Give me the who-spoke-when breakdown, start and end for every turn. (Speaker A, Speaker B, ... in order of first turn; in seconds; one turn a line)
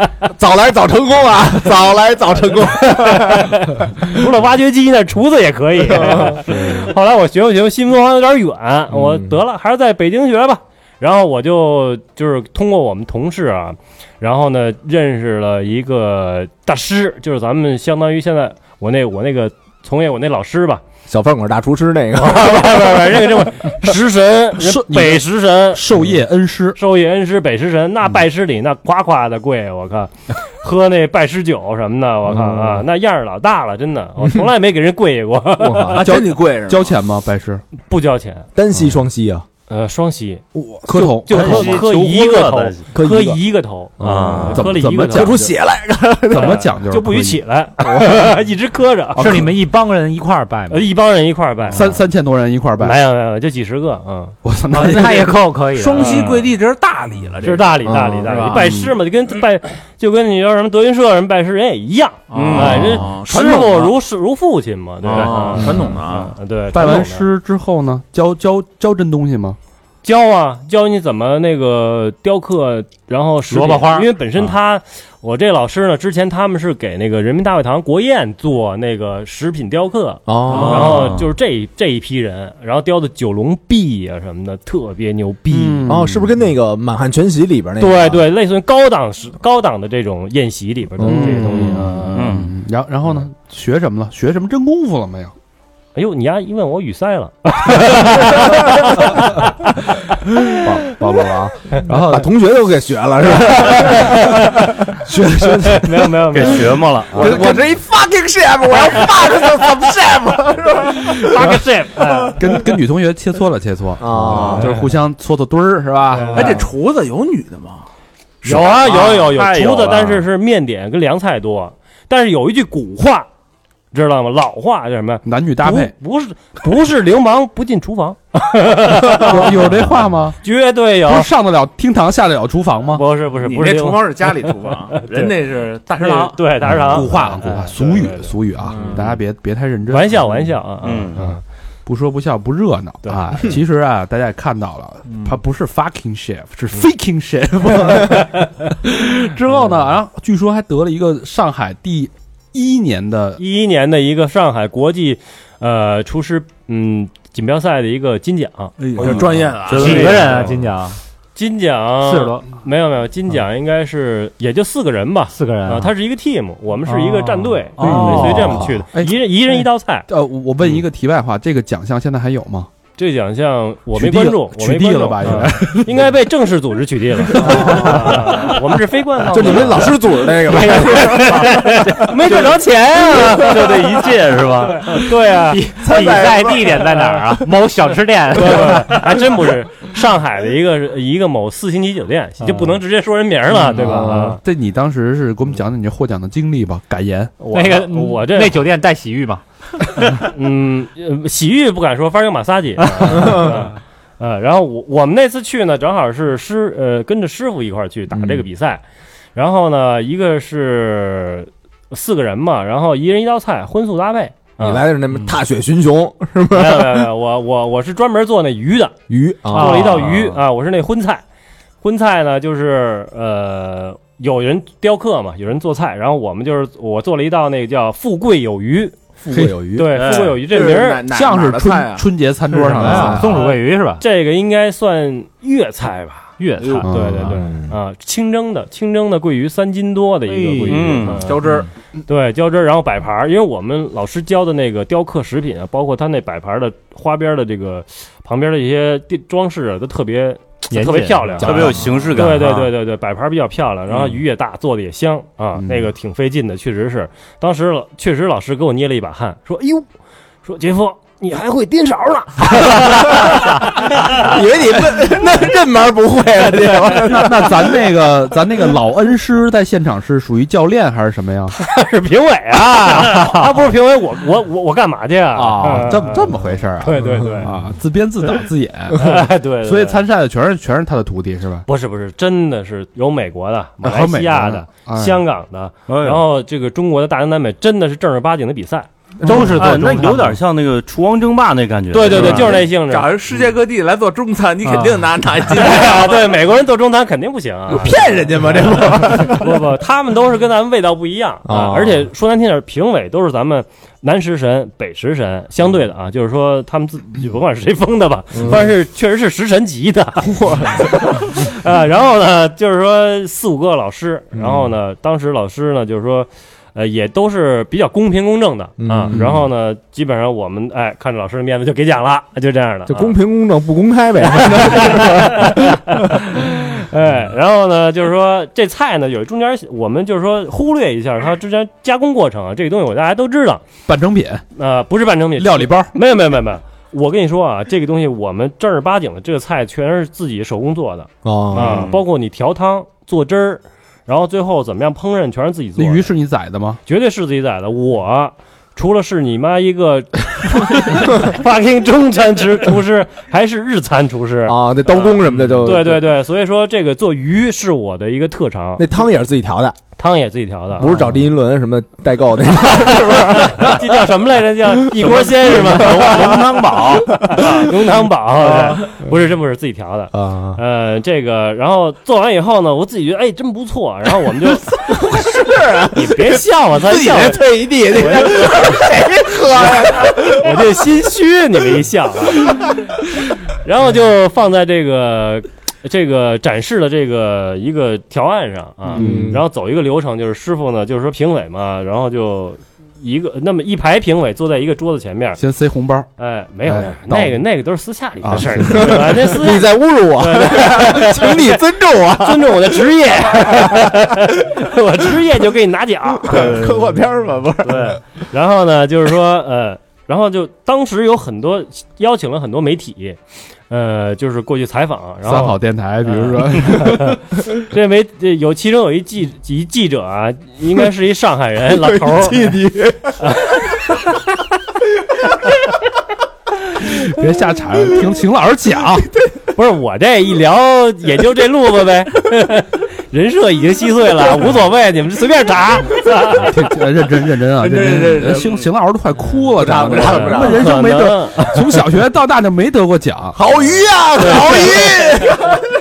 Speaker A: 0.3-4.1
Speaker B: 2.7-20.8
Speaker A: 5.8-6.6
Speaker C: 6.6-6.8
Speaker A: 8.9-9.4
Speaker A: 21.1-23.0
Speaker B: 22.1-25.8
Speaker C: 24.6-26.8
Speaker B: 26.8-36.0
Speaker A: 32.4-32.8
Speaker A: 35.6-36.2
Speaker D: 35.9-37.0
Speaker C: 36.0-37.6
Speaker B: 37.8-38.5
Speaker A: 38.5-39.5
Speaker B: 39.7-40.4
Speaker C: 40.5-41.9
Speaker A: 40.9-41.5
Speaker B: 41.2-45.4
Speaker E: 41.3-42.8
Speaker A: 42.9-43.4
Speaker A: 44.0-46.6
Speaker E: 44.0-44.7
Speaker C: 44.5-45.5
Speaker C: 46.3-47.4
Speaker B: 46.3-49.5
Speaker A: 47.8-48.4
Speaker F: 49.2-50.9
Speaker C: 49.2-49.5
Speaker B: 50.7-51.9
Speaker C: 51.7-53.0
Speaker B: 52.8-54.4
Speaker C: 54.4-55.4
Speaker F: 54.7-56.4
Speaker D: 55.7-58.6
Speaker B: 57.4-67.3
Speaker A: 57.9-58.3
Speaker C: 58.5-59.0
Speaker D: 62.3-63.9
Speaker E: 62.3-63.1
Speaker C: 63.3-63.6
Speaker D: 65.0-66.4
Speaker E: 65.1-65.5
Speaker A: 65.5-66.0
Speaker C: 66.7-69.6
Speaker B: 70.0-85.9
Speaker F: 73.5-74.1
Speaker A: 80.3-81.1
Speaker E: 80.5-81.3
Speaker C: 85.5-86.4
Speaker A: 85.9-88.2
Speaker B: 87.8-92.0
Speaker A: 91.0-92.1
Speaker C: 91.0-95.3
Speaker E: 92.1-92.5
Speaker B: 96.0-99.9
Speaker A: 98.0-99.0
Speaker A: 100.5-112.2
Speaker C: 101.8-102.3
Speaker B: 103.6-104.8
Speaker C: 105.1-105.8
Speaker B: 105.8-106.7
Speaker E: 106.3-107.4
Speaker C: 107.2-107.6
Speaker B: 111.2-112.3
Speaker F: 112.0-112.3
Speaker C: 112.4-116.6
Speaker A: 114.0-114.8
Speaker E: 114.3-114.6
Speaker D: 116.3-117.8
Speaker E: 118.4-120.2
Speaker B: 118.4-123.3
Speaker B: 123.9-129.7
Speaker C: 125.2-125.9
Speaker C: 129.1-130.4
Speaker B: 130.4-131.3
Speaker C: 131.1-133.0
Speaker B: 132.9-135.3
Speaker D: 133.4-136.5
Speaker B: 136.0-138.4
Speaker C: 136.6-140.5
Speaker D: 138.7-139.1
Speaker B: 139.9-141.4
Speaker E: 140.8-141.2
Speaker C: 141.9-153.4
Speaker D: 145.1-145.4
Speaker B: 153.4-158.8
Speaker D: 158.8-160.5
Speaker C: 159.0-159.9
Speaker E: 159.7-160.5
Speaker F: 159.7-161.0
Speaker B: 159.9-160.4
Speaker B: 161.4-170.1
Speaker F: 162.0-162.4
Speaker F: 165.3-165.9
Speaker F: 166.9-168.6
Speaker C: 167.8-172.7
Speaker D: 167.8-168.1
Speaker B: 173.0-183.8
Speaker C: 173.9-176.1
Speaker A: 177.4-178.1
Speaker A: 179.3-183.4
Speaker F: 181.2-181.7
Speaker E: 183.4-184.8
Speaker F: 184.9-189.3
Speaker B: 184.9-185.6
Speaker A: 185.8-187.4
Speaker B: 188.3-194.4
Speaker F: 192.4-192.8
Speaker F: 193.7-194.2
Speaker A: 193.8-194.3
Speaker C: 194.0-197.4
Speaker B: 197.4-198.6
Speaker F: 197.5-200.2
Speaker B: 200.1-208.8
Speaker F: 202.9-203.6
Speaker A: 208.1-208.5
Speaker B: 209.3-214.9
Speaker A: 214.6-217.1
Speaker B: 216.5-219.0
Speaker A: 219.1-220.2
Speaker F: 219.5-220.4
Speaker B: 219.5-221.2
Speaker B: 221.8-229.0
Speaker A: 229.2-229.9
Speaker C: 229.3-229.6
Speaker B: 229.7-231.0
Speaker D: 229.9-232.1
Speaker C: 231.1-233.4
Speaker F: 232.7-234.0
Speaker B: 233.2-236.3
Speaker F: 236.4-237.5
Speaker D: 236.6-236.9
Speaker C: 236.8-237.4
Speaker B: 236.9-241.4
Speaker A: 237.3-237.7
Speaker F: 240.3-241.2
Speaker E: 240.7-241.3
Speaker D: 241.1-241.7
Speaker B: 242.1-259.9
Speaker F: 250.7-252.7
Speaker E: 251.4-252.7
Speaker E: 253.9-254.2
Speaker C: 255.6-255.9
Speaker B: 260.4-264.3
Speaker A: 262.7-267.9
Speaker C: 266.9-271.6
Speaker B: 271.6-277.5
Speaker F: 272.9-273.4
Speaker C: 275.4-281.7
Speaker B: 278.9-280.0
Speaker B: 281.7-288.9
Speaker C: 283.8-285.2
Speaker E: 285.9-286.2
Speaker F: 289.2-290.4
Speaker E: 289.3-292.6
Speaker B: 291.9-293.1
Speaker D: 292.1-296.3
Speaker F: 294.6-295.1
Speaker B: 295.5-298.1
Speaker A: 297.7-299.4
Speaker B: 298.9-323.2
Speaker A: 301.5-302.1
Speaker A: 308.3-308.6
Speaker A: 310.2-310.9
Speaker A: 314.4-314.6
Speaker A: 318.8-319.4
Speaker A: 322.9-326.2
Speaker B: 324.4-333.6
Speaker C: 333.9-334.4
Speaker B: 334.6-346.1
Speaker C: 335.4-335.9
Speaker A: 341.2-341.9
Speaker E: 341.5-342.0
Speaker C: 345.8-346.8
Speaker B: 346.9-358.9
Speaker A: 354.5-356.1
Speaker A: 358.8-359.8
Speaker B: 360.0-361.0
Speaker A: 360.8-363.8
Speaker B: 362.9-375.0
Speaker A: 365.0-367.7
Speaker A: 370.1-370.6
Speaker A: 374.7-380.7
Speaker B: 375.9-378.9
Speaker B: 379.6-395.4
Speaker C: 388.9-389.4
Speaker A: 388.9-389.4
Speaker C: 395.4-396.1
Speaker B: 396.2-406.7
Speaker C: 396.6-397.4
Speaker C: 398.2-399.1
Speaker A: 398.6-403.9
Speaker A: 406.2-408.0
Speaker B: 407.6-413.2
Speaker B: 413.7-422.6
Speaker C: 415.2-417.2
Speaker A: 421.7-423.3
Speaker B: 423.2-424.1
Speaker C: 426.7-429.1
Speaker B: 429.5-436.6
Speaker C: 436.2-443.4
Speaker D: 437.6-438.7
Speaker A: 439.6-440.8
Speaker B: 440.2-441.6
Speaker A: 443.4-445.6
Speaker D: 443.6-445.2
Speaker B: 444.2-444.8